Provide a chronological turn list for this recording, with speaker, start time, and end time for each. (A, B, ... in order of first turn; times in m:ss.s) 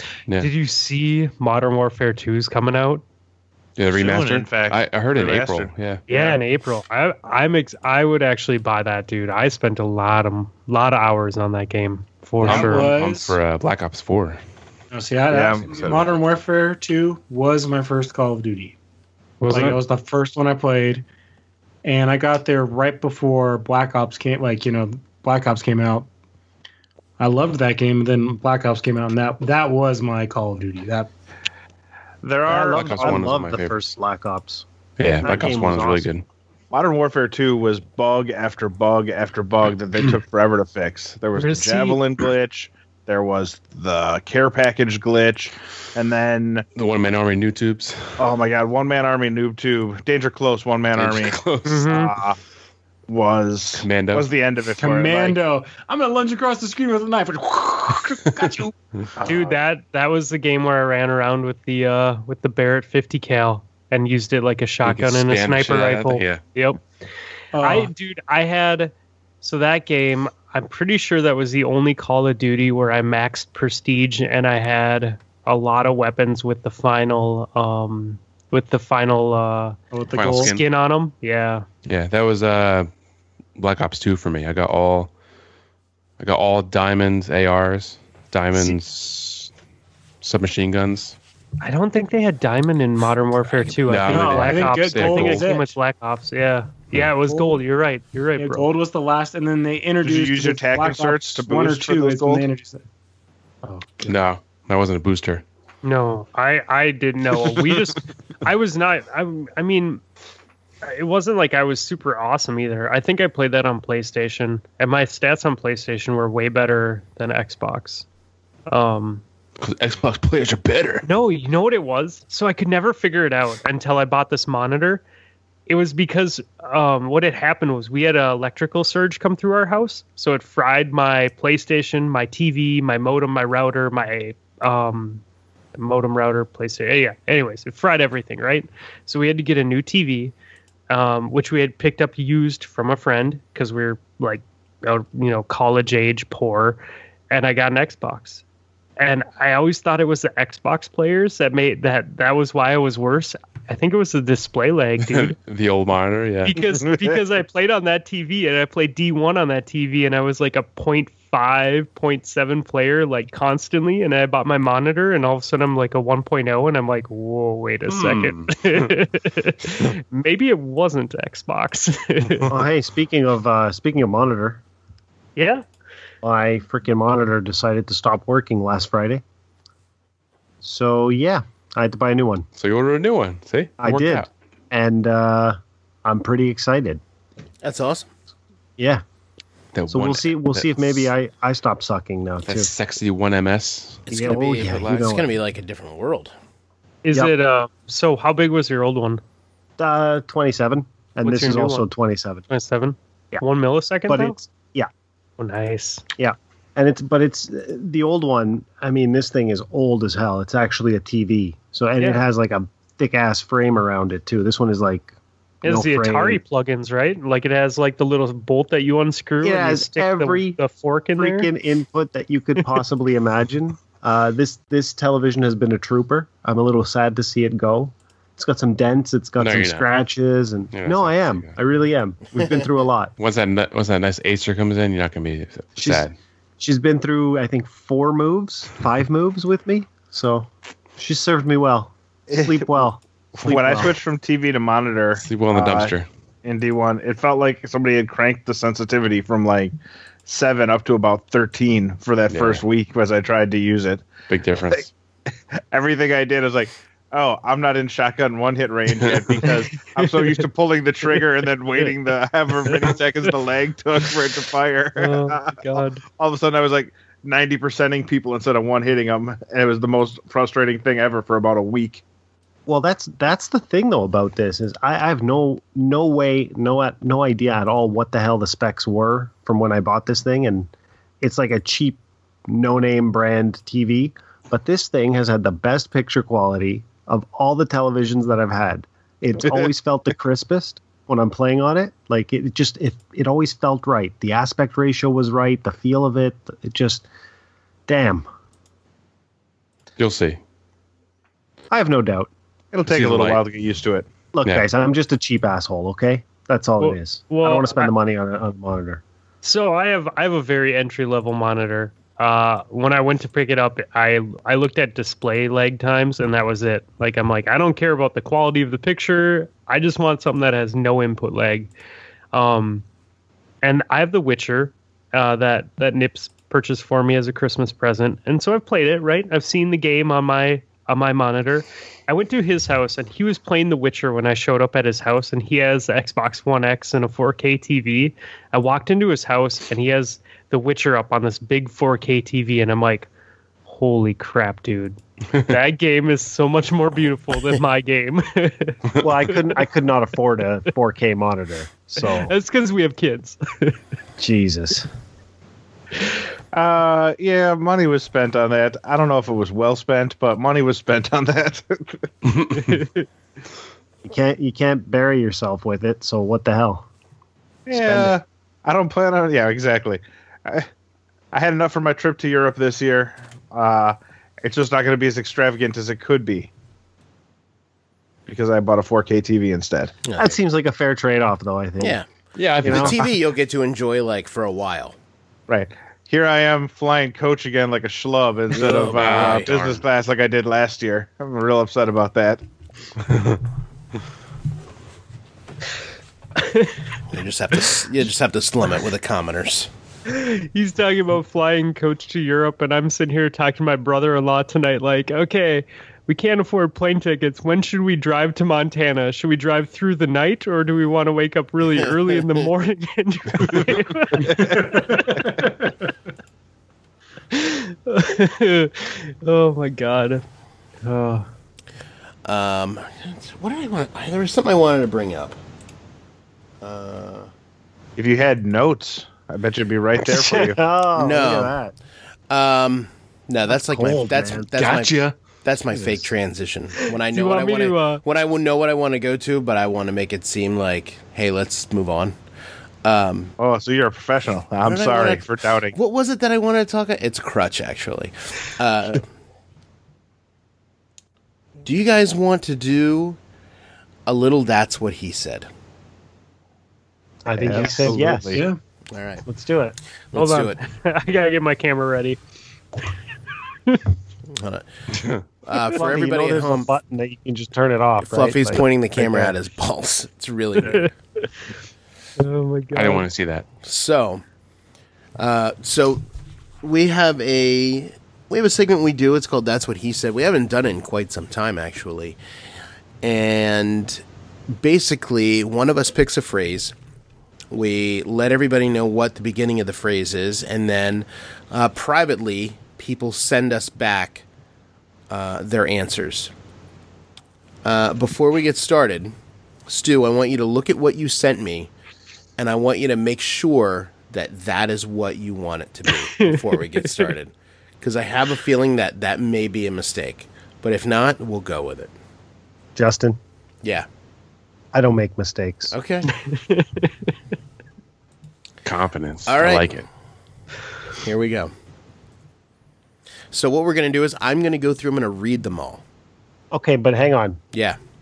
0:00.3-0:03.0 A
0:03.8-0:06.0 B
0:03.9-0:06.4 C
0:06.1-0:12.9 A
0:12.4-0:13.4 D
0:12.4-0:14.4 B
0:14.9-0:18.8 D
0:15.3-0:15.8 C
0:15.7-0:16.2 B
0:19.4-0:19.8 A
0:19.5-0:21.0 D
0:21.8-0:26.1 D
0:27.2-0:31.1 D
0:32.2-0:33.3 C
0:32.5-0:34.7 E
0:32.7-0:33.8 B
0:35.0-0:36.2 B
0:35.2-0:36.1 E
0:36.7-0:46.6 C
0:41.4-0:42.0 A
0:46.7-0:48.2 B
0:48.2-0:52.4 C
0:51.0-0:51.8 B
0:51.6-0:52.1 A
0:53.1-0:55.4 C
0:53.7-0:54.3 B
0:54.8-0:59.5 D
0:59.2-1:06.8 A
1:04.8-1:06.4 B
1:07.5-1:07.9 D
1:07.6-1:19.8 A
1:19.9-1:20.5 D
1:20.1-1:20.6 B
1:20.3-1:21.6 A
1:21.9-1:22.9 B
1:23.6-1:25.1 B
1:26.2-1:29.5 B
1:30.2-1:31.2 B
1:31.6-1:38.7 A
1:33.8-1:35.5 B
1:34.0-1:35.8 D
1:37.3-1:37.6 D
1:38.4-1:42.8 D
1:40.0-1:42.4 C
1:43.6-1:44.2 D
1:44.0-1:45.4 B
1:45.8-1:50.0 A
1:50.8-1:58.0 A
1:58.7-1:59.2 A
1:59.6-2:01.0 B
2:01.0-2:05.0 A
2:05.7-2:15.2 A
2:15.8-2:20.3 A
2:20.9-2:28.4 A
2:29.0-2:35.4 A
2:35.1-2:36.6 B
2:36.4-2:52.5 A
2:36.8-2:37.2 C
2:47.9-2:48.9 B
2:52.5-2:54.6 E
2:55.4-2:55.6 A
2:56.2-2:59.2 E
3:00.6-3:02.5 E
3:02.6-3:04.3 B
3:03.8-3:07.0 E
3:07.6-3:08.1 F
3:08.8-3:09.0 E
3:09.7-3:11.1 B
3:09.9-3:12.7 E
3:12.4-3:14.8 B
3:14.1-3:16.3 F
3:14.1-3:15.3 E
3:17.0-3:19.2 A
3:19.8-3:22.4 E
3:21.2-3:21.9 A
3:22.5-3:24.4 A
3:24.1-3:24.9 E
3:25.4-3:26.0 A
3:26.2-3:35.1 E
3:35.6-3:36.4 E
3:35.6-3:41.5 A
3:39.4-3:40.6 E
3:41.2-3:53.1 E
3:49.4-3:49.9 B
3:50.7-3:51.6 B
3:53.2-3:56.1 B
3:55.8-3:56.1 E
3:56.6-4:04.0 E
4:02.3-4:02.7 C
4:03.4-4:05.9 C
4:05.2-4:06.1 B
4:06.4-4:09.7 C
4:10.3-4:14.0 C
4:12.3-4:12.6 B
4:14.3-4:14.9 B
4:15.7-4:32.0 C
4:19.1-4:19.4 B
4:19.4-4:20.4 A
4:25.0-4:26.0 A
4:32.7-4:40.7 E
4:41.2-4:57.0 E
4:57.9-4:58.3 E
5:00.0-5:00.4 B
5:01.7-5:02.3 E
5:02.7-5:04.0 C
5:02.9-5:03.4 B
5:04.3-5:09.0 E
5:06.8-5:07.9 A
5:09.4-5:21.7 A
5:22.3-5:22.8 A
5:23.6-5:43.1 A
5:43.7-5:49.3 A
5:49.0-5:52.3 E
5:52.0-5:53.8 A
5:54.2-5:54.9 E
5:56.5-6:02.1 C
6:02.5-6:03.0 A
6:04.0-6:06.9 E
6:07.7-6:10.7 C
6:07.7-6:08.2 E
6:11.3-6:16.5 C
6:18.3-6:19.9 C
6:20.0-6:20.4 F
6:20.2-6:22.0 E
6:21.8-6:22.0 F
6:22.4-6:23.0 B
6:22.6-6:25.0 F
6:22.6-6:23.0 E
6:25.5-6:32.4 C
6:28.5-6:29.8 B
6:28.6-6:29.5 F
6:36.4-6:36.8 A
6:37.1-6:39.7 F
6:40.1-6:55.5 A
6:54.2-6:55.7 D
6:54.3-6:54.6 C
6:57.3-7:00.2 A
7:00.8-7:01.3 A
7:02.3-7:05.4 F
7:06.6-7:07.3 F
7:08.0-7:10.6 C
7:10.1-7:11.7 E
7:11.0-7:11.5 F
7:12.3-7:22.2 F
7:13.5-7:14.5 E
7:14.6-7:15.1 B
7:15.7-7:16.0 E
7:17.0-7:18.0 A
7:22.8-7:23.3 F
7:23.4-7:25.7 C
7:24.6-7:29.1 F
7:31.6-7:33.2 F
7:34.0-7:35.5 F
7:37.2-7:38.4 E
7:37.4-7:38.4 C
7:38.3-7:38.6 D
7:38.9-7:39.2 F
7:39.3-7:39.8 E
7:40.1-7:40.6 F
7:40.1-7:42.2 A
7:44.3-7:44.7 F
7:45.4-7:46.7 F
7:45.6-7:49.4 E
7:48.0-7:50.9 F
7:50.6-7:51.3 A
7:52.2-7:53.0 A
7:52.7-7:53.5 B
7:53.6-7:54.2 F
7:55.2-7:56.0 F
7:56.6-8:02.2 F
8:03.0-8:04.0 F
8:04.6-8:06.7 F
8:07.5-8:14.2 F
8:15.1-8:16.3 F
8:17.6-8:19.1 F
8:19.7-8:21.7 F
8:22.4-8:31.9 F
8:25.9-8:27.1 A
8:32.8-8:33.2 E
8:34.7-8:35.7 E
8:35.7-8:36.1 F
8:36.2-8:36.9 A
8:38.6-8:39.9 B
8:39.3-8:39.8 F
8:41.0-8:41.5 F
8:43.3-8:45.8 F
8:46.5-8:47.4 E
8:47.5-8:47.8 F